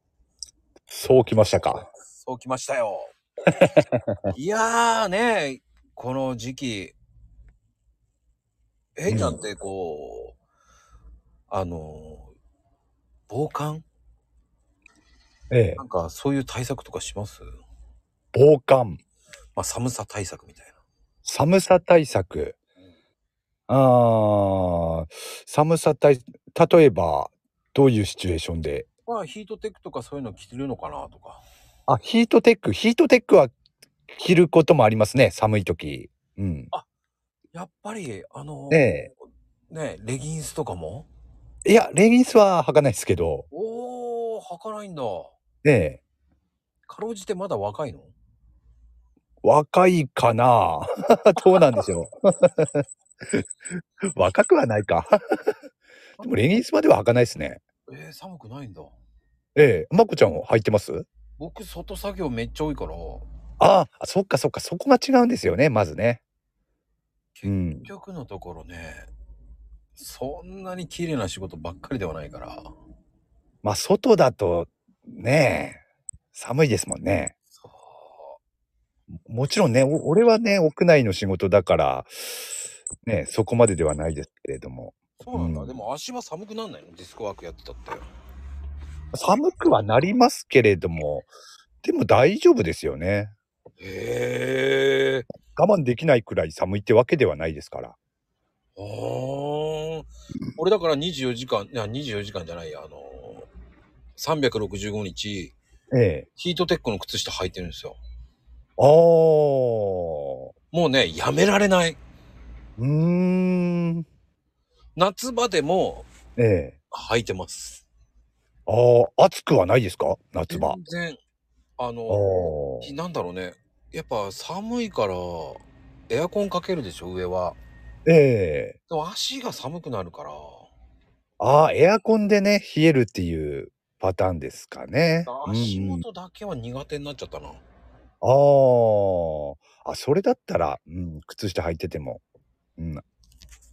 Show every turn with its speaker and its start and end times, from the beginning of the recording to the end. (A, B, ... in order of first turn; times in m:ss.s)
0:00.9-0:01.8 A
0:01.4-0:03.2 B
0:03.6-0:04.3 A
0:04.3-0:07.0 B
0:09.0-0:10.4 B
0:09.1-0:09.4 A
0:11.5-0:12.3 B
0:13.3-0:13.8 B
0:15.5-0:15.8 A
0:15.8-0:17.5 B
0:18.3-0:19.0 A
0:19.6-0:20.8 B
0:21.2-0:22.6 A
0:23.7-0:28.9 A
0:29.1-0:31.4 B
0:31.9-0:33.5 A
0:34.1-0:36.7 A
0:37.5-0:39.1 B
0:38.7-0:39.1 A
0:39.7-0:41.1 B
0:41.6-0:43.5 A
0:43.5-0:45.4 B
0:45.6-0:46.0 A
0:46.9-0:48.1 B
0:49.4-0:55.6 A
0:51.4-0:51.8 B
0:56.2-0:57.6 A
0:57.9-0:59.0 B
0:59.6-1:01.1 A
1:01.4-1:03.3 B
1:03.6-1:06.2 A
1:07.4-1:09.1 B
1:07.4-1:07.9 A
1:10.0-1:12.7 B
1:13.6-1:15.8 A
1:16.3-1:17.3 A
1:17.6-1:18.4 B
1:19.3-1:22.5 A
1:23.0-1:25.8 A
1:25.2-1:28.1 B
1:29.1-1:31.3 A
1:31.8-1:33.3 A
1:33.8-1:35.3 B
1:35.5-1:38.0 A
1:38.8-1:43.5 B
1:44.2-1:45.6 B
1:45.9-1:46.3 A
1:46.4-1:48.0 B
1:48.8-1:50.5 A
1:50.7-1:52.0 B
1:52.8-1:54.1 A
1:55.0-1:56.1 B
1:56.4-1:56.8 A
1:56.9-1:57.8 B
1:58.7-2:00.8 A
2:00.5-2:01.2 B
2:01.8-2:07.6 B
2:02.1-2:02.9 A
2:08.1-2:08.8 A
2:08.9-2:10.7 B
2:11.4-2:16.0 A
2:15.3-2:17.6 B
2:18.2-2:22.2 A
2:22.8-2:23.0 A